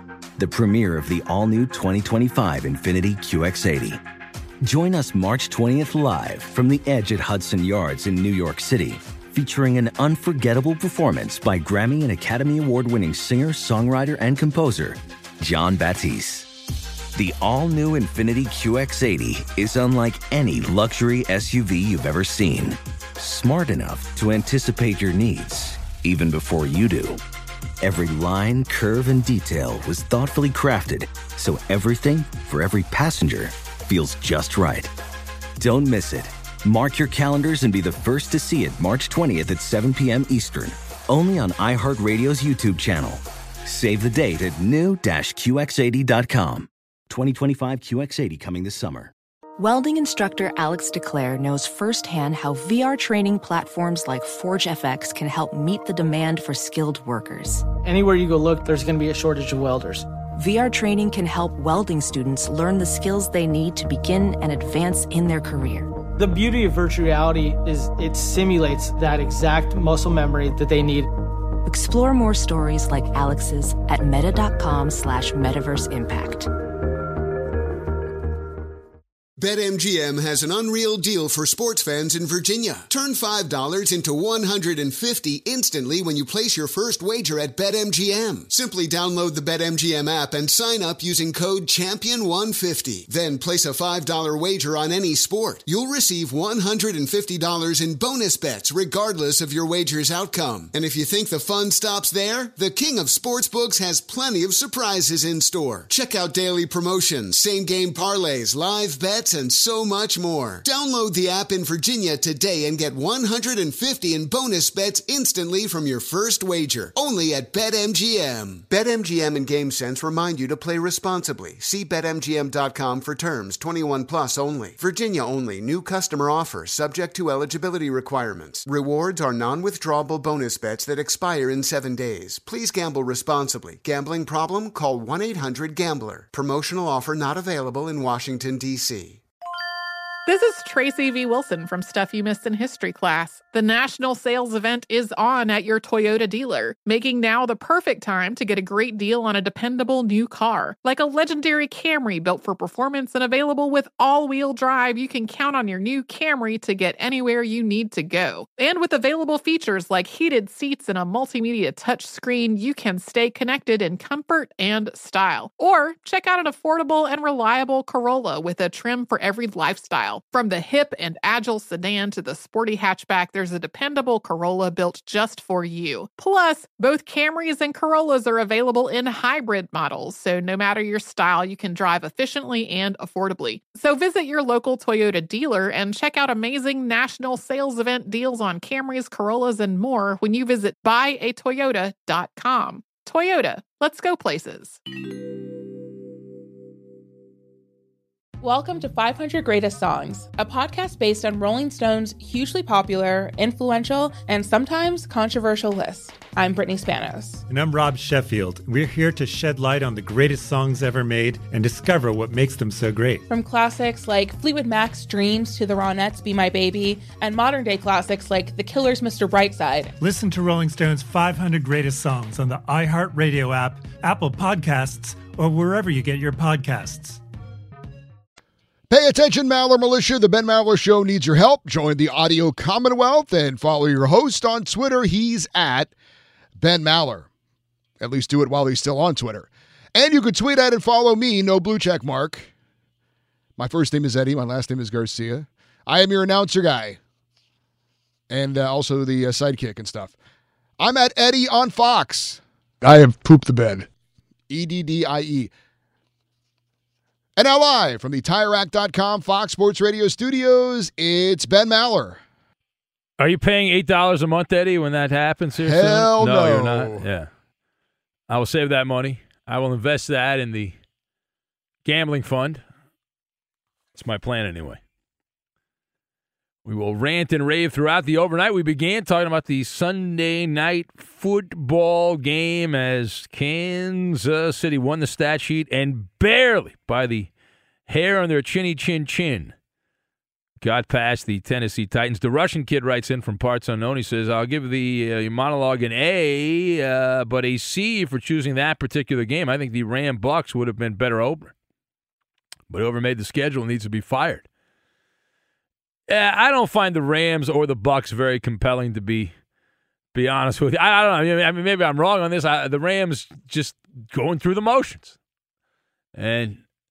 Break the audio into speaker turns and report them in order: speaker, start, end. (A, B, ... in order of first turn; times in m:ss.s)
0:00.4-0:04.0 A
0:04.6-0:16.5 A
0:17.1-0:27.2 A
0:27.8-0:34.9 A
0:35.6-0:49.1 A
0:49.6-0:57.6 B
0:57.8-1:00.0 C
1:00.4-1:05.9 B
1:06.2-1:11.1 C
1:11.6-1:16.5 B
1:19.4-2:19.2 D
2:20.2-3:14.8 E
3:18.4-3:27.4 F
3:27.5-3:33.2 G
3:33.3-3:39.9 F
3:40.0-3:47.2 G
3:48.9-3:55.9 H
3:56.6-3:57.3 H
3:58.0-4:02.5 H
4:03.6-4:07.0 H
4:08.3-4:10.1 H
4:10.8-4:13.9 H
4:14.5-4:15.5 H
4:17.4-4:22.2 H
4:23.2-4:27.3 I
4:25.6-4:27.0 H
4:28.3-4:30.8 I
4:31.8-4:32.6 I
4:33.9-4:34.8 I
4:36.6-4:47.3 I
4:47.9-4:49.5 I
4:50.6-5:01.5 I
5:02.7-5:04.4 I
5:06.1-5:09.3 I
5:10.1-5:15.2 I
5:16.1-5:16.6 I